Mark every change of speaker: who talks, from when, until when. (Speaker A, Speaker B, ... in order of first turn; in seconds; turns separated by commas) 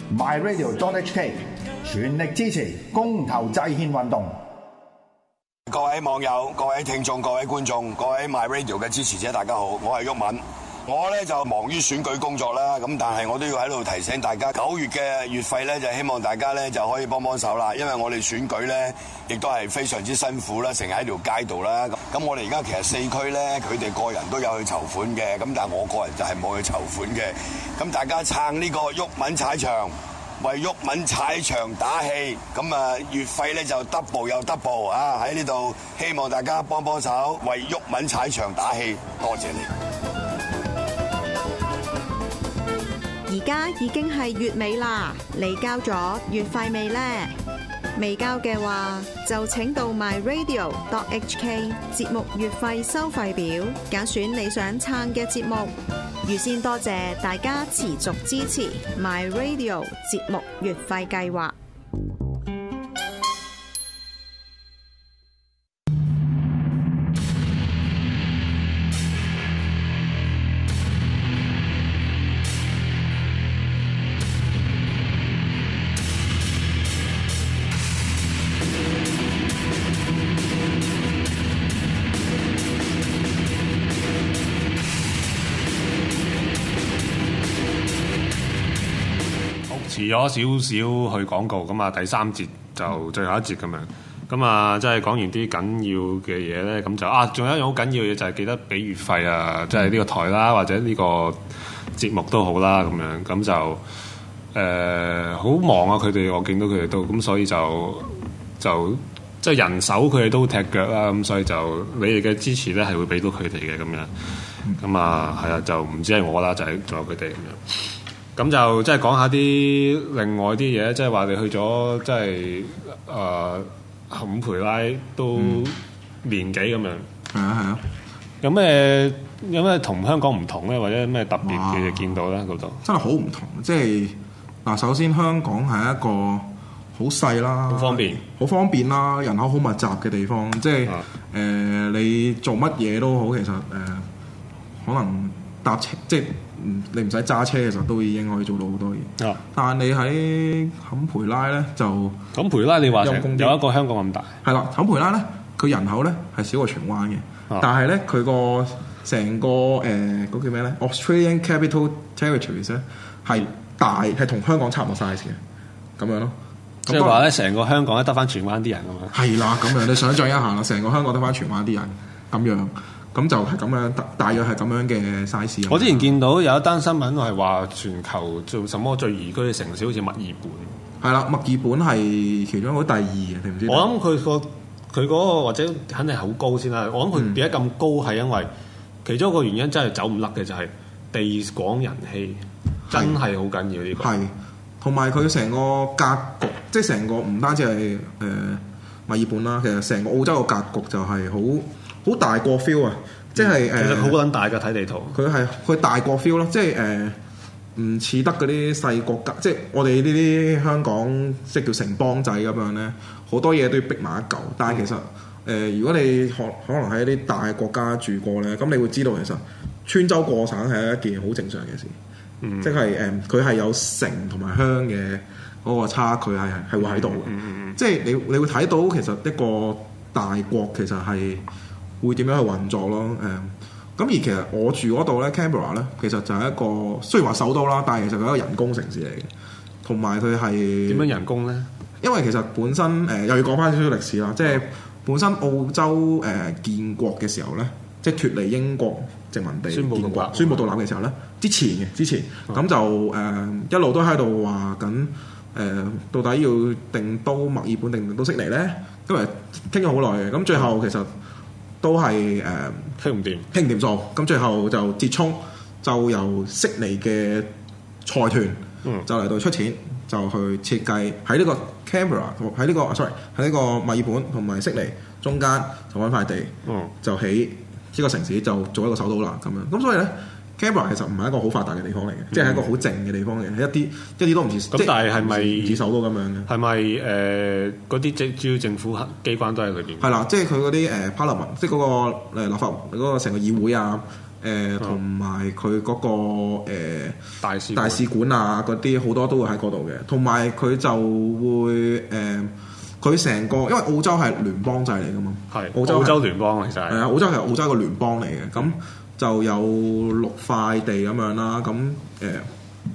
Speaker A: 0.1-4.3, Speaker B: 5.7-39.7, Speaker C: 43.3-47.3, Speaker C: 48.0-61.5, Speaker D: 89.7-101.4, Speaker D: 101.9-103.8, Speaker D: 104.5-114.1, Speaker D: 114.7-117.8, Speaker D: 118.3-127.0, Speaker E: 125.4-125.6, Speaker E: 127.3-127.8, Speaker D: 128.4-132.8, Speaker E: 131.4-132.1, Speaker E: 132.8-144.1, Speaker D: 137.7-138.2, Speaker E: 144.8-152.2, Speaker D: 152.3-154.3, Speaker E: 153.0-153.6, Speaker E: 154.4-165.4, Speaker E: 166.0-166.3, Speaker E: 166.8-167.2, Speaker D: 166.9-169.2, Speaker E: 169.1-176.1, Speaker D: 175.7-180.7, Speaker E: 181.0-183.9, Speaker D: 183.7-188.5, Speaker E: 187.1-187.4, Speaker D: 189.0-194.1, Speaker E: 192.9-193.2, Speaker E: 194.0-204.2, Speaker D: 203.4-205.2, Speaker E: 205.1-207.2, Speaker E: 207.8-221.9, Speaker D: 222.4-222.8, Speaker E: 222.6-231.4, Speaker D: 226.8-227.8, Speaker E: 232.0-239.3, Speaker E: 239.8-241.1, Speaker D: 240.9-241.7, Speaker E: 242.0-261.1, Speaker D: 249.7-250.7, Speaker E: 261.8-262.9, Speaker D: 263.0-263.5, Speaker E: 263.5-267.5, Speaker E: 268.0-286.5, Speaker D: 276.6-276.9, Speaker D: 282.3-282.6, Speaker D: 284.7-285.8, Speaker D: 286.5-290.1, Speaker E: 290.0-297.2, Speaker D: 297.4-298.1, Speaker E: 297.7-306.2, Speaker D: 305.5-307.0, Speaker E: 306.9-312.5